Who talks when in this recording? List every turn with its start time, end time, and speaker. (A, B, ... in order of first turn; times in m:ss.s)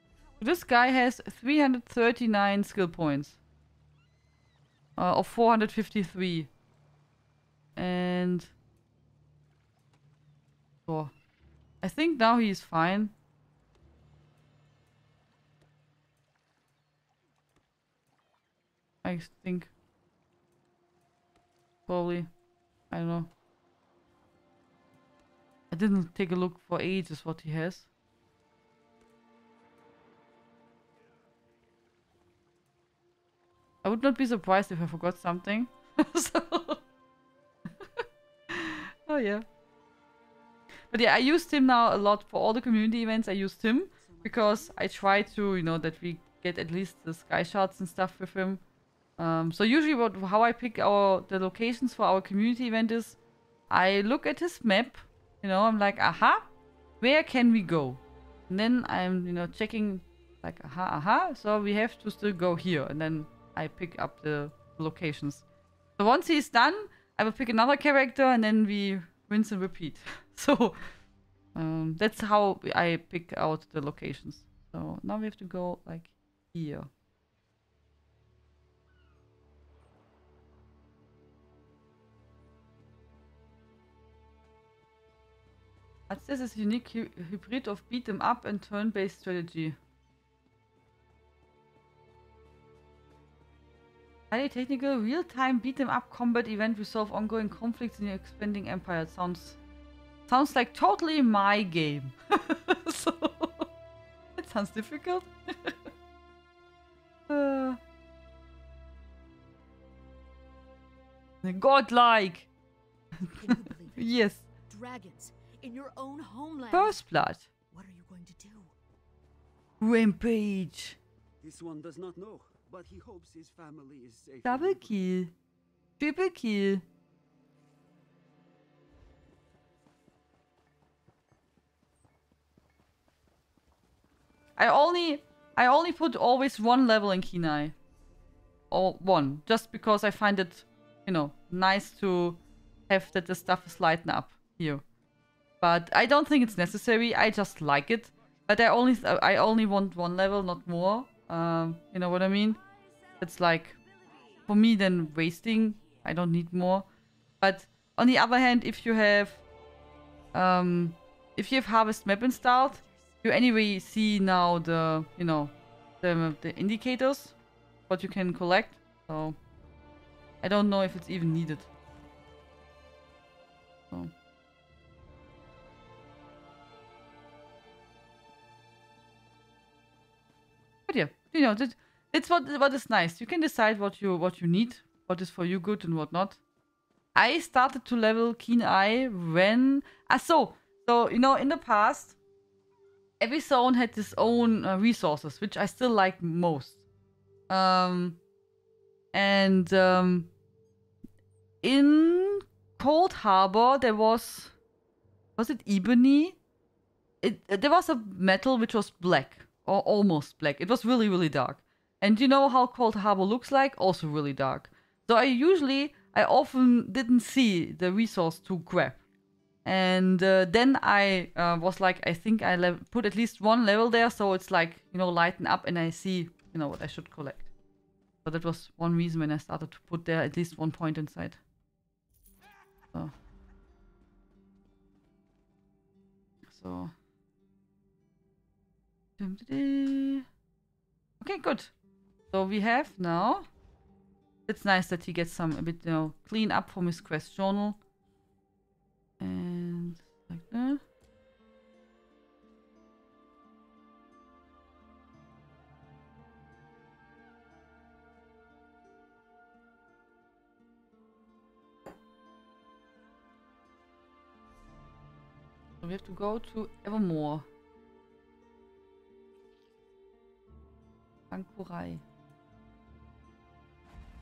0:00.4-0:03.4 A
0:05.0-0:06.5 A
0:07.8-0:08.5 A
0:10.9-0:11.1 A
0:11.8-0:13.1 A
0:19.0-0:19.7 A
0:21.9-0:22.3 A
0:22.9-0:23.3 A
0:25.7-0:27.9 A
0:33.8-0:36.8 A
0:38.5-0:39.4 A
0:40.9-0:48.6 A
0:44.1-0:44.8 B
0:49.2-0:53.2 A
0:53.7-0:56.5 A
0:57.0-1:05.4 A
1:06.0-1:10.8 A
1:11.6-1:16.9 A
1:26.1-1:29.8 A
1:34.3-1:39.6 A
1:40.3-1:43.7 A
1:44.4-1:45.8 A
1:47.3-1:47.8 A
1:51.4-1:52.5 A
1:53.3-1:54.1 B
1:54.0-1:54.4 A
1:54.7-1:57.0 B
1:56.7-1:57.5 A
1:57.7-1:58.7 B
1:59.8-2:01.0 A
2:01.4-2:05.0 C
2:04.4-2:05.3 A
2:06.0-2:06.8 A
2:14.6-2:17.8 A
2:18.7-2:24.8 A
2:25.6-2:32.6 A
2:32.6-2:36.0 B
2:33.2-2:33.7 A
2:34.5-2:36.9 A
2:37.4-2:39.4 A
2:40.3-2:47.4 A
2:42.5-2:43.0 B
2:47.9-2:49.4 A
2:50.4-2:51.7 A
3:00.9-3:06.4 A
3:07.1-3:12.2 A
3:13.2-3:16.8 A
3:17.5-3:18.2 A
3:19.1-3:20.3 A
3:21.6-3:24.5 A
3:25.4-3:26.4 A
3:27.2-3:39.0 A
3:39.6-3:47.5 A
3:48.2-3:51.4 A
3:56.5-3:56.9 A
3:59.2-4:00.3 A
4:01.2-4:01.7 A
4:02.3-4:03.5 A
4:04.5-4:07.8 A
4:09.2-4:10.8 A
4:25.8-4:27.5 A
4:31.3-4:32.0 A